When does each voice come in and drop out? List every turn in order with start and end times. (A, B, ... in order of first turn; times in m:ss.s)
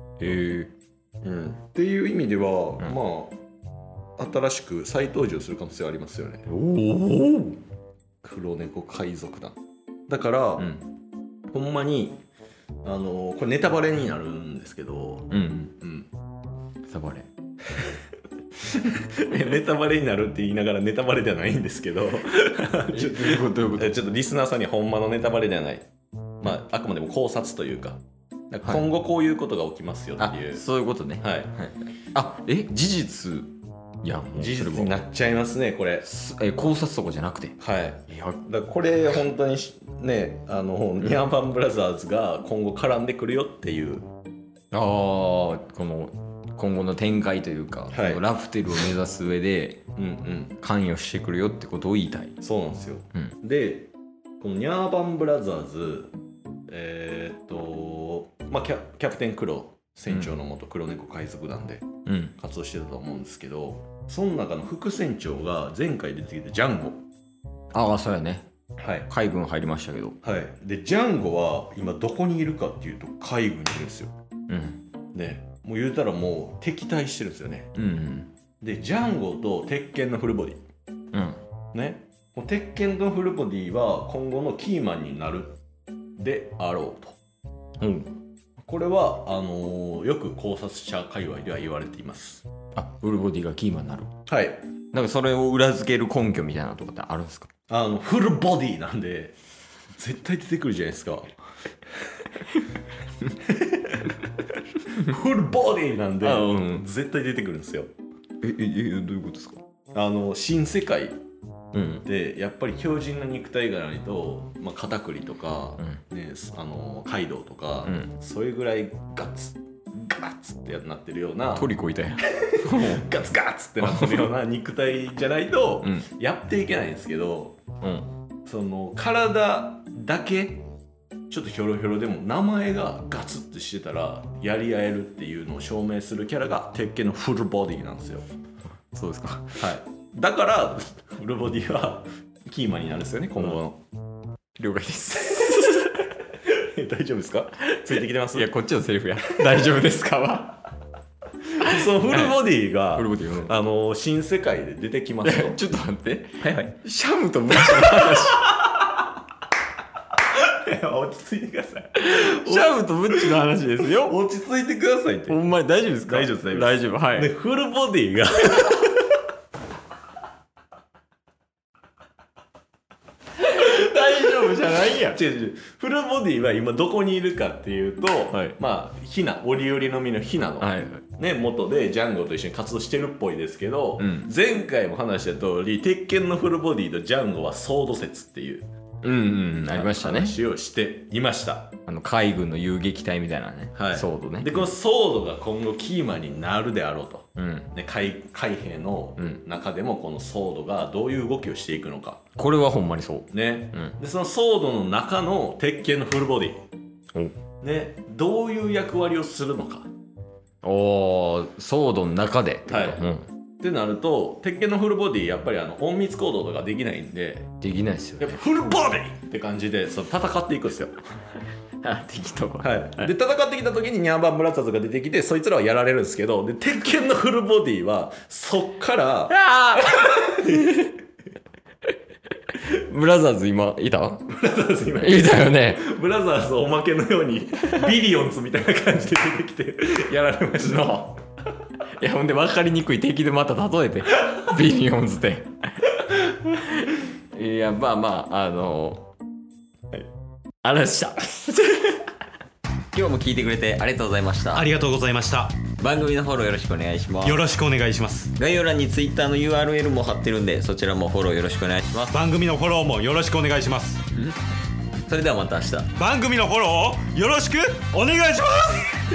0:00.2-0:00.7 A
0:01.2-0:03.4 B
0:04.2-0:06.4 B
0:06.5-0:07.6 A
0:08.2-0:09.6 B
0:10.1-0:10.7 B
0:10.6-0:10.8 A
0:11.5-0:12.2 B
0:12.8-0:16.1 B
0:15.3-0:15.7 A
0:16.9-0:17.3 A
0:18.7-0:25.9 B
0:22.9-0:24.0 A
0:26.4-0:30.6 B
0:30.2-0:33.5 A
0:31.2-0:31.5 B
0:34.0-0:35.0 A
0:34.4-0:36.1 B
0:36.0-0:38.4 A
0:37.6-0:44.1 B
0:44.7-0:49.8 A
0:47.9-0:49.0 B
0:50.0-0:50.6 B
0:50.6-0:52.4 A
0:52.4-0:56.1 B
0:56.7-1:01.8 B
1:00.1-1:00.4 A
1:02.1-1:02.4 A
1:02.4-1:07.0 B
1:07.7-1:08.5 A
1:08.8-1:09.1 B
1:09.1-1:10.2 A
1:10.2-1:14.1 B
1:14.5-1:14.8 A
1:15.1-1:17.7 B
1:17.7-1:18.3 A
1:18.6-1:20.6 B
1:21.1-1:21.4 A
1:21.7-1:25.6 B
1:26.2-1:27.2 B
1:27.8-1:28.2 A
1:28.7-1:32.5 B
1:32.8-1:34.1 A
1:34.3-1:34.6 B
1:34.9-1:37.5 A
1:37.7-1:39.4 B
1:40.0-1:41.4 B
1:43.4-1:44.2 B
1:44.9-1:47.9 B
1:46.2-1:46.9 A
1:48.4-1:49.6 A
1:49.9-1:51.2 B
1:51.7-1:52.1 A
1:52.0-2:07.6 B
1:57.8-1:58.1 A
2:01.5-2:03.1 A
2:03.8-2:04.3 A
2:05.8-2:06.1 A
2:07.8-2:08.1 A
2:08.5-2:10.7 B
2:11.3-2:18.2 B
2:18.9-2:19.6 A
2:19.6-2:23.8 B
2:24.6-2:26.0 A
2:25.2-2:28.5 B
2:27.7-2:30.7 A
2:29.2-2:29.6 B
2:31.5-2:35.6 B
2:31.6-2:33.6 A
2:35.2-2:38.7 A
2:36.4-2:36.7 B
2:37.6-2:38.6 B
2:40.2-2:45.4 B
2:42.0-2:44.2 A
2:45.3-2:47.3 A
2:46.1-2:49.2 B
2:53.4-2:55.2 A
2:55.0-3:08.7 B
2:58.3-2:58.6 A
3:00.6-3:01.1 A
3:04.0-3:04.3 A
3:09.0-3:10.4 A
3:09.7-3:11.7 B
3:11.8-3:14.7 A
3:13.8-3:22.2 B
3:17.4-3:17.7 A
3:22.4-3:24.0 A
3:23.3-3:26.6 B
3:27.6-3:29.9 B
3:30.6-3:33.3 A
3:32.7-3:33.0 B
3:33.6-3:37.5 B
3:37.6-3:38.4 A
3:38.2-3:41.0 B
3:41.8-3:43.1 A
3:42.6-3:50.9 B
3:49.3-3:50.9 A
3:52.5-3:54.4 A
3:54.3-4:01.1 B
3:55.0-3:55.9 A
4:00.6-4:01.2 A
4:02.0-4:09.1 A
4:10.6-4:12.1 A
4:12.9-4:14.7 A
4:14.6-4:15.6 C
4:15.6-4:17.5 A
4:17.2-4:18.3 C
4:18.3-4:22.3 A
4:22.1-4:24.0 C
4:24.1-4:24.4 A
4:25.1-4:26.0 A
4:26.0-4:29.0 C